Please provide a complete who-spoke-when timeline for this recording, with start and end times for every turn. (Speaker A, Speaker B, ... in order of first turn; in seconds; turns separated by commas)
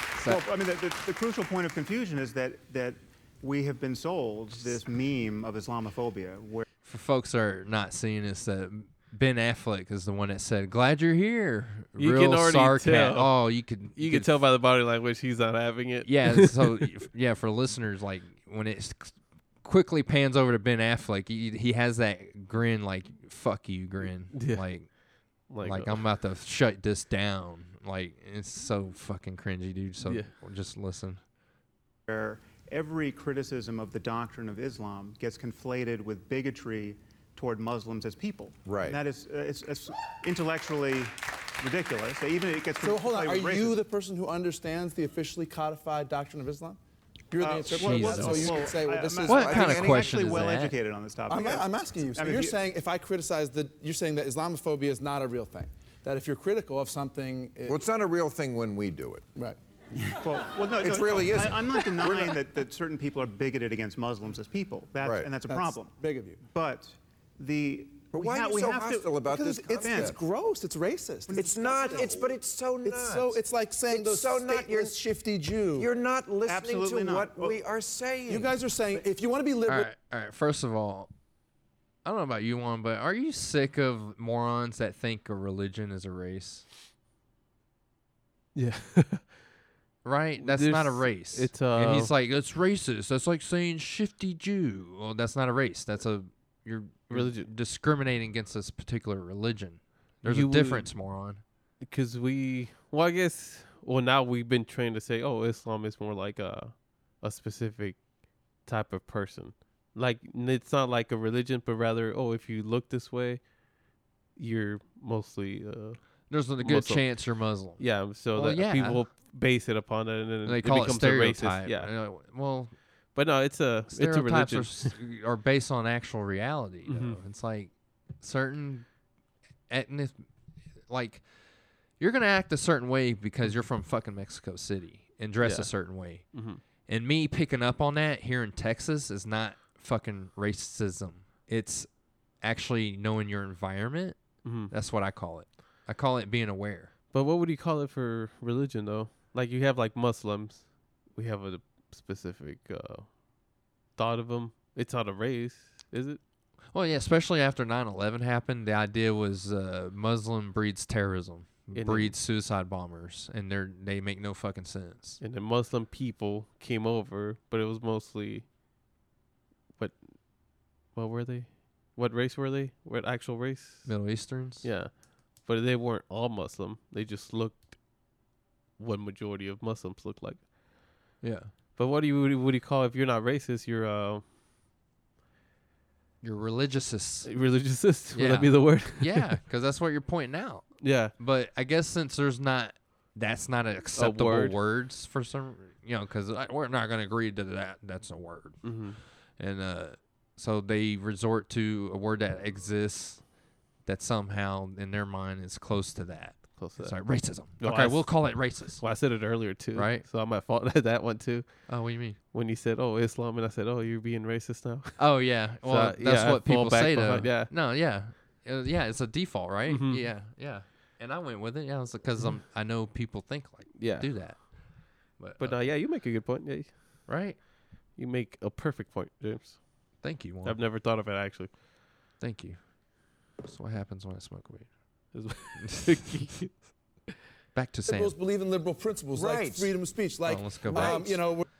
Speaker A: 0.2-0.4, Speaker B: 0.2-6.7, Speaker A: 6.8-14.4, Speaker C: 12.0-16.8, Speaker A: 16.1-31.2, Speaker C: 24.3-26.0, Speaker C: 30.0-30.3, Speaker B: 32.1-43.8, Speaker D: 38.7-39.0, Speaker E: 42.8-46.8, Speaker E: 47.3-49.5, Speaker B: 47.4-52.6, Speaker A: 47.8-48.6, Speaker D: 49.2-50.4, Speaker A: 49.3-50.8, Speaker E: 51.3-57.8, Speaker D: 57.6-59.3, Speaker B: 60.2-66.0, Speaker D: 60.8-62.4, Speaker D: 65.0-65.3, Speaker E: 65.5-66.4, Speaker B: 66.5-69.2, Speaker D: 68.1-70.2, Speaker E: 69.3-72.3, Speaker B: 69.7-70.2, Speaker B: 71.3-72.3, Speaker D: 71.3-75.0, Speaker E: 72.8-75.9, Speaker D: 75.7-78.7, Speaker B: 76.5-77.6, Speaker E: 78.3-79.9, Speaker A: 79.7-81.1, Speaker A: 82.0-86.7, Speaker C: 88.5-89.4, Speaker A: 90.0-101.4, Speaker C: 90.4-92.1, Speaker C: 97.1-97.5, Speaker C: 100.2-100.9, Speaker C: 101.8-113.5, Speaker C: 114.4-121.9, Speaker A: 116.3-119.1, Speaker A: 120.5-122.8, Speaker C: 123.1-125.0, Speaker A: 123.9-128.9, Speaker C: 126.9-127.2, Speaker A: 129.7-130.3, Speaker A: 130.9-131.2, Speaker A: 132.0-146.9, Speaker C: 135.4-135.7, Speaker C: 136.3-136.6, Speaker C: 144.4-144.7, Speaker C: 147.1-153.3, Speaker C: 153.9-156.2, Speaker A: 156.7-165.2, Speaker C: 161.7-162.2, Speaker C: 165.2-168.5, Speaker C: 169.8-174.1, Speaker A: 173.9-174.7, Speaker C: 174.6-177.8, Speaker C: 178.8-180.5, Speaker A: 181.2-181.5, Speaker C: 181.8-184.2, Speaker A: 186.2-187.3, Speaker C: 187.2-189.4, Speaker A: 188.1-198.8, Speaker C: 190.8-191.1, Speaker C: 193.9-194.6, Speaker C: 198.6-199.0, Speaker A: 199.4-203.3, Speaker A: 203.8-209.0, Speaker C: 206.6-211.8, Speaker A: 209.7-210.1, Speaker A: 211.7-212.2, Speaker C: 212.3-217.5, Speaker A: 215.0-225.7, Speaker C: 219.7-220.1, Speaker C: 223.8-224.4, Speaker C: 225.4-227.1, Speaker A: 227.1-227.4, Speaker C: 227.9-231.6, Speaker A: 230.0-230.6, Speaker A: 232.2-234.7, Speaker C: 235.1-237.1, Speaker A: 235.6-236.0, Speaker A: 237.5-238.2, Speaker E: 237.9-241.5, Speaker D: 239.1-239.8, Speaker A: 240.3-241.1, Speaker D: 240.7-241.2